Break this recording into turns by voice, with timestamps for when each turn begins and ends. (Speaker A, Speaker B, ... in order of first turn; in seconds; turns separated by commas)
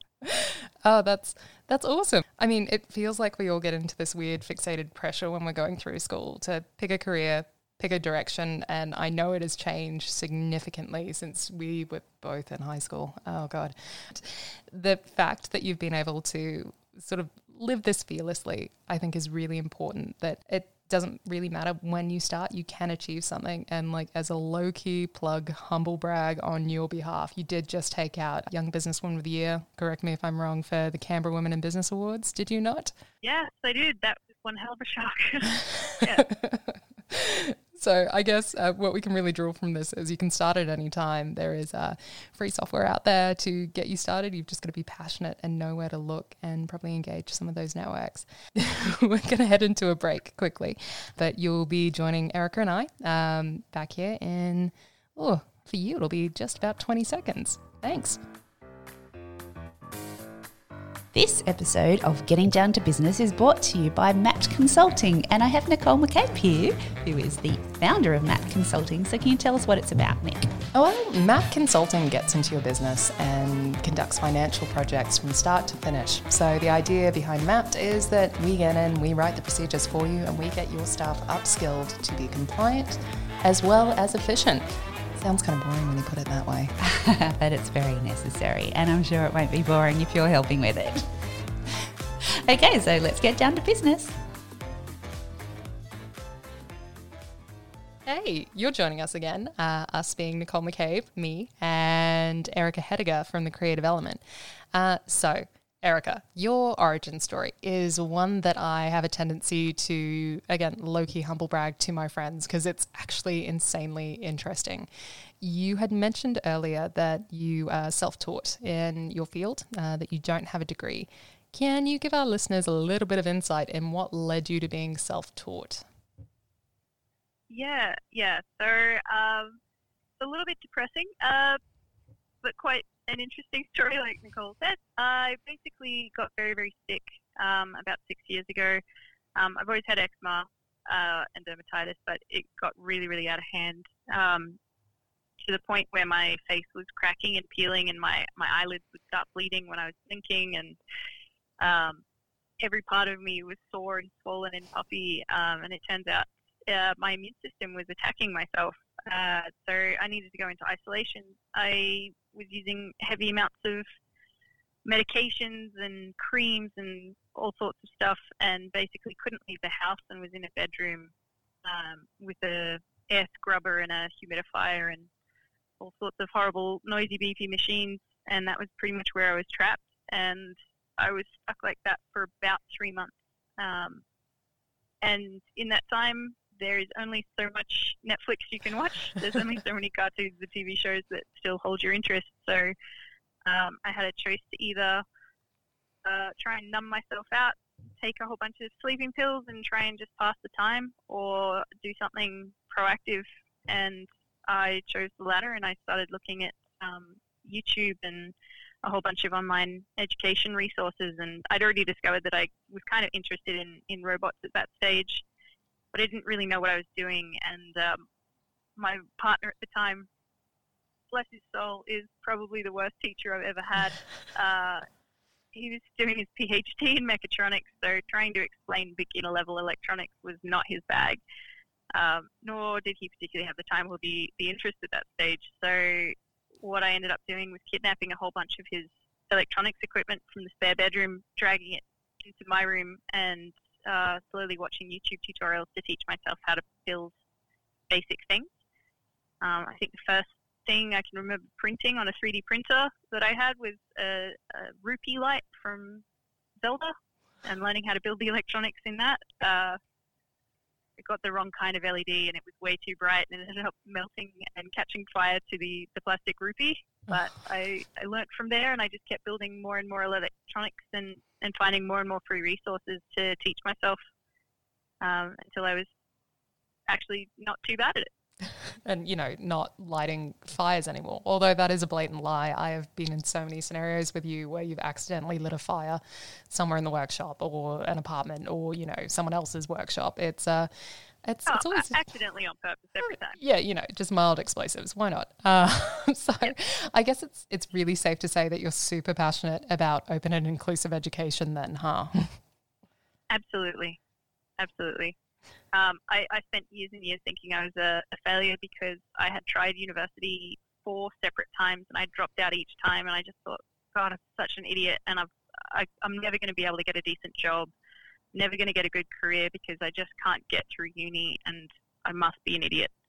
Speaker A: 0.2-32.9, Speaker B: 33.2-36.2, Speaker A: 35.7-58.2, Speaker C: 61.1-70.5, Speaker A: 70.7-86.7, Speaker C: 86.8-91.0, Speaker C: 92.5-94.1, Speaker A: 98.0-114.9, Speaker A: 115.4-125.8, Speaker B: 127.5-129.6, Speaker B: 130.2-131.6, Speaker B: 132.4-138.8, Speaker B: 139.3-144.6, Speaker B: 145.4-150.8, Speaker B: 151.6-152.0, Speaker B: 152.6-163.8, Speaker B: 164.8-171.1, Speaker B: 171.6-175.1, Speaker B: 175.8-184.0, Speaker B: 185.0-192.7, Speaker B: 193.4-195.0, Speaker B: 196.0-208.3, Speaker B: 208.8-215.2, Speaker B: 215.9-218.0, Speaker B: 218.8-220.1, Speaker B: 221.1-224.8, Speaker B: 225.5-231.2, Speaker B: 231.9-247.1, Speaker B: 247.9-248.5, Speaker B: 249.4-256.0, Speaker B: 256.6-259.8, Speaker B: 261.0-274.0, Speaker B: 275.0-275.9, Speaker B: 276.9-278.1, Speaker A: 278.8-290.7, Speaker A: 291.2-292.0, Speaker B: 291.5-293.4, Speaker A: 293.0-302.4, Speaker B: 303.3-304.0, Speaker B: 304.6-305.1, Speaker B: 305.7-317.7, Speaker B: 318.3-322.9